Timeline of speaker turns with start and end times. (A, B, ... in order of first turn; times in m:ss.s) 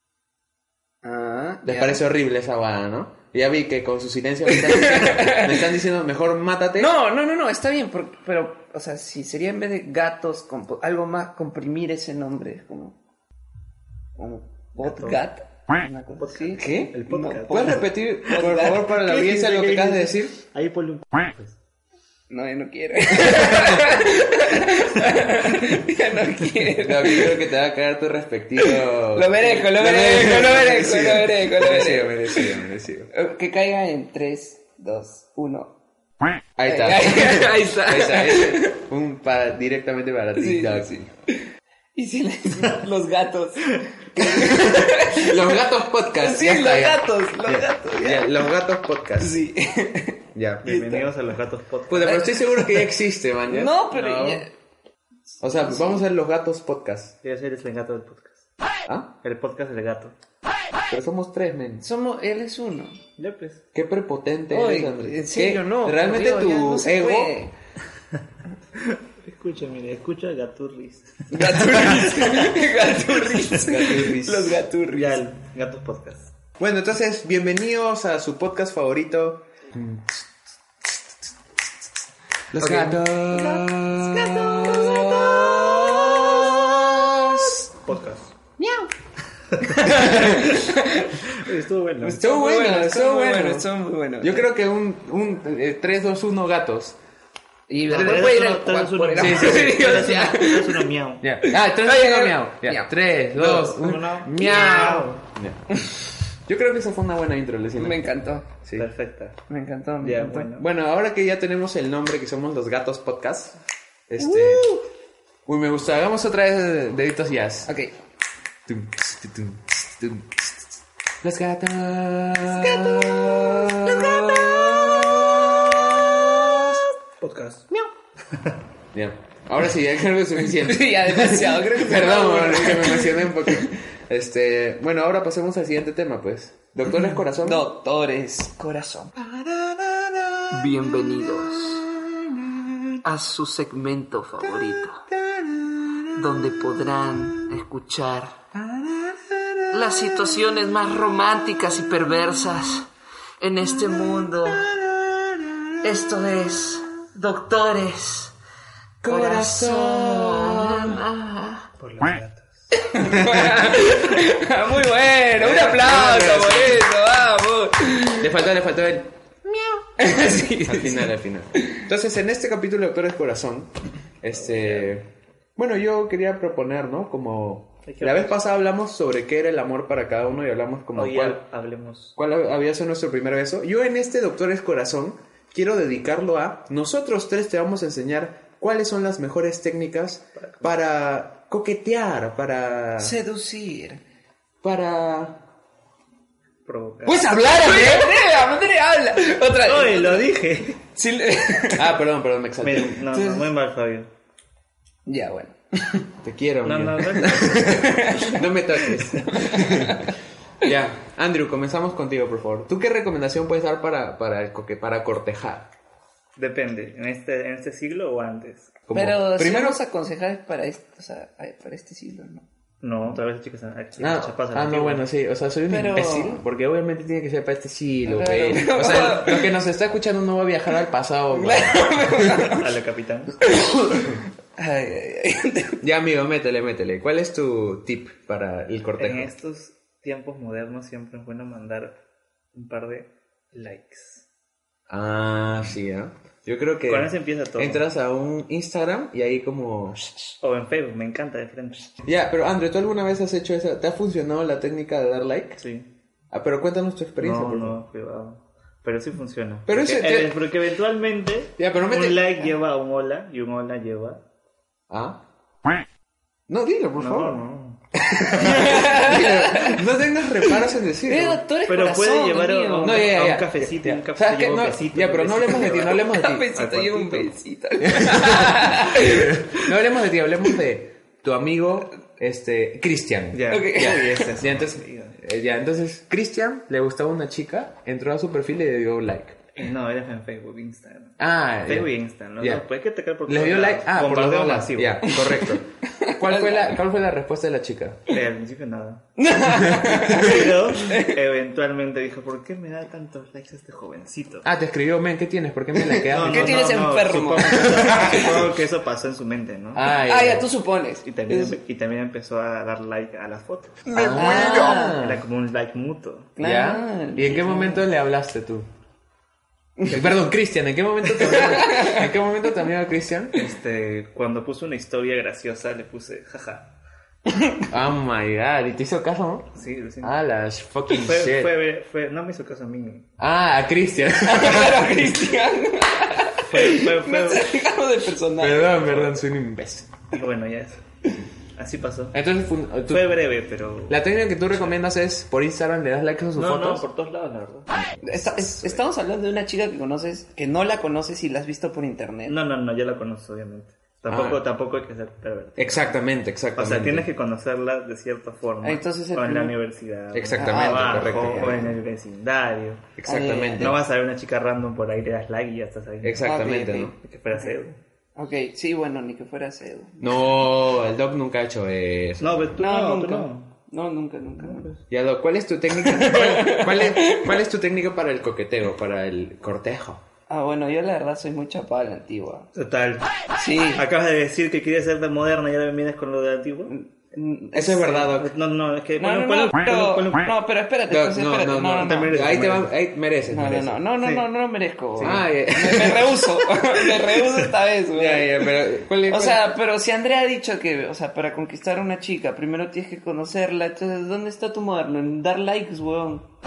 0:01.0-0:02.0 A
0:01.6-0:06.9 B
0:04.5-0:05.7 A
0:06.8-0:13.0 A
0:14.2-0:18.8 A
0:14.8-0:15.2 C
0:16.1-0:21.6 C
0:16.6-0:20.3 B
0:22.3-0:27.4 A
0:23.2-0:24.0 B
0:26.8-0:33.1 B
0:28.6-0:32.6 A
0:33.1-0:35.8 A
0:36.6-0:40.9 B
0:36.6-0:38.8 A
0:40.4-0:45.6 A
0:44.3-0:49.4 B
0:46.2-0:48.3 A
0:49.2-0:51.1 A
0:50.3-0:50.6 B
0:50.6-0:52.2 C
0:51.9-0:54.4 B
0:52.0-0:52.8 A
0:53.5-0:54.5 A
0:55.4-0:56.0 A
0:55.4-0:57.1 B
0:57.2-0:58.4 C
0:59.2-1:00.2 C
1:00.9-1:01.8 B
1:01.8-1:03.0 A
1:03.2-1:03.6 C
1:03.7-1:07.3 B
1:04.5-1:07.5 A
1:08.8-1:11.8 C
1:11.3-1:15.2 A
1:11.3-1:12.2 B
1:13.5-1:14.6 B
1:14.9-1:16.3 C
1:16.6-1:20.3 B
1:22.5-1:27.7 B
1:22.6-1:27.2 A
1:27.8-1:28.3 C
1:28.6-1:28.9 B
1:29.5-1:32.2 C
1:29.8-1:30.7 B
1:30.4-1:31.1 A
1:32.0-1:34.5 A
1:32.2-1:33.7 B
1:34.2-1:37.0 B
1:37.7-1:40.8 A
1:37.9-1:38.2 B
1:37.9-1:41.2 C
1:39.2-1:40.0 B
1:41.2-1:45.7 B
1:41.4-1:42.9 A
1:43.3-1:45.2 C
1:44.4-1:44.9 A
1:46.4-1:48.0 B
1:47.8-1:48.5 A
1:48.7-1:49.4 C
1:49.5-1:50.5 A
1:50.0-1:50.6 C
1:50.5-1:54.7 B
1:54.2-1:54.8 A
1:55.4-1:57.7 B
1:58.7-2:00.7 B
2:01.2-2:06.8 B
2:02.5-2:05.2 A
2:06.1-2:06.8 A
2:07.2-2:07.7 C
2:08.9-2:17.7 B
2:10.5-2:13.7 A
2:17.4-2:19.1 A
2:19.2-2:20.7 B
2:20.5-2:21.9 A
2:21.3-2:22.9 B
2:23.0-2:25.0 A
2:24.4-2:26.7 B
2:26.1-2:28.4 A
2:28.5-2:30.4 B
2:29.7-2:32.9 A
2:33.4-2:34.7 A
2:33.8-2:35.8 B
2:35.8-2:38.3 A
2:39.0-2:41.1 B
2:39.1-2:41.6 A
2:41.8-2:42.7 C
2:42.7-2:48.3 A
2:43.0-2:44.0 B
2:45.4-2:46.9 B
2:48.2-2:50.1 B
2:50.0-2:51.8 A
2:50.6-3:01.4 B
2:54.3-2:55.0 C
2:57.8-2:58.3 C
3:00.9-3:02.2 C
3:02.2-3:13.1 B
3:10.4-3:10.7 C
3:13.0-3:14.0 A
3:14.6-3:15.4 B
3:16.6-3:17.3 C
3:17.0-3:18.2 B
3:17.3-3:20.3 A
3:19.6-3:20.8 C
3:20.9-3:21.9 A
3:21.7-3:23.1 B
3:22.6-3:24.1 C
3:23.1-3:23.4 A
3:25.0-3:26.0 A
3:26.2-3:35.7 B
3:26.6-3:27.7 C
3:27.5-3:30.2 A
3:36.4-3:38.8 C
3:38.9-3:39.8 B
3:38.9-3:42.4 A
3:42.8-3:45.0 C
3:44.0-3:52.4 B
3:45.7-3:46.4 A
3:48.0-3:49.5 A
3:51.3-3:52.7 A
3:52.5-3:53.4 C
3:53.5-3:55.8 A
3:55.8-3:59.3 B
3:59.0-4:02.0 C
4:02.5-4:04.2 C
4:04.9-4:10.0 B
4:06.9-4:07.8 C
4:10.4-4:11.9 C
4:12.0-4:15.6 B
4:15.6-4:15.9 C
4:16.3-4:17.8 B
4:17.2-4:24.2 C
4:19.7-4:20.4 B
4:21.6-4:22.2 B
4:24.9-4:25.2 B
4:26.5-4:27.4 B
4:27.0-4:27.8 C
4:28.1-4:29.8 A
4:28.2-4:31.4 B
4:31.0-4:33.1 A
4:31.7-4:37.3 C
4:32.8-4:36.5 B
4:35.8-4:39.7 A
4:37.8-4:49.4 B
4:43.3-4:45.2 C
4:43.5-4:44.2 A
4:49.6-4:55.2 C
4:51.2-4:52.6 B
4:53.3-4:58.1 B
4:55.1-4:56.7 A
4:58.1-4:59.0 C
4:59.2-5:01.2 A
4:59.6-5:00.2 B
4:59.9-5:04.5 C
5:04.4-5:06.7 B
5:05.9-5:08.5 A
5:06.1-5:09.9 C
5:07.5-5:08.5 B
5:09.7-5:10.5 B
5:09.9-5:11.6 A
5:11.0-5:16.3 C
5:13.9-5:15.2 B
5:13.9-5:15.0 A
5:16.4-5:17.8 A
5:16.4-5:18.6 B
5:19.8-5:23.4 B
5:21.2-5:22.1 A
5:23.3-5:26.7 C
5:27.3-5:27.7 A
5:27.7-5:31.5 B
5:29.5-5:30.1 C
5:30.9-5:33.0 C
5:33.2-5:35.3 B
5:34.2-5:38.9 A
5:36.5-5:37.5 C
5:38.4-5:39.9 B
5:38.8-5:39.1 C
5:40.1-5:40.8 C
5:41.5-5:42.2 C
5:42.1-5:43.2 B
5:42.9-5:44.7 C
5:43.9-5:46.8 B
5:46.3-5:47.7 C
5:47.7-5:48.7 B
5:48.0-5:52.4 A
5:52.3-5:55.9 C
5:54.1-5:54.4 B
5:55.6-5:57.1 B
5:56.6-6:02.9 C
5:58.6-5:59.6 A
6:00.1-6:01.7 B
6:00.3-6:01.7 A
6:03.0-6:03.8 B
6:03.0-6:03.8 A
6:03.6-6:06.4 C
6:06.0-6:07.0 B
6:06.2-6:07.5 A
6:07.0-6:07.8 C
6:08.2-6:10.4 A
6:10.0-6:12.5 B
6:12.2-6:13.5 C
6:12.6-6:14.7 A
6:14.4-6:14.7 C
6:14.9-6:20.0 B
6:15.8-6:17.4 A
6:20.3-6:22.5 A
6:22.5-6:23.1 C
6:23.4-6:23.8 A
6:23.7-6:26.7 C
6:26.7-6:28.2 A
6:27.5-6:28.3 B
6:28.1-6:30.3 C
6:29.0-6:32.1 A
6:30.9-6:33.8 B
6:31.8-6:32.7 C
6:33.3-6:38.5 A
6:35.0-6:36.8 B
6:37.9-6:39.4 B
6:39.0-6:46.3 A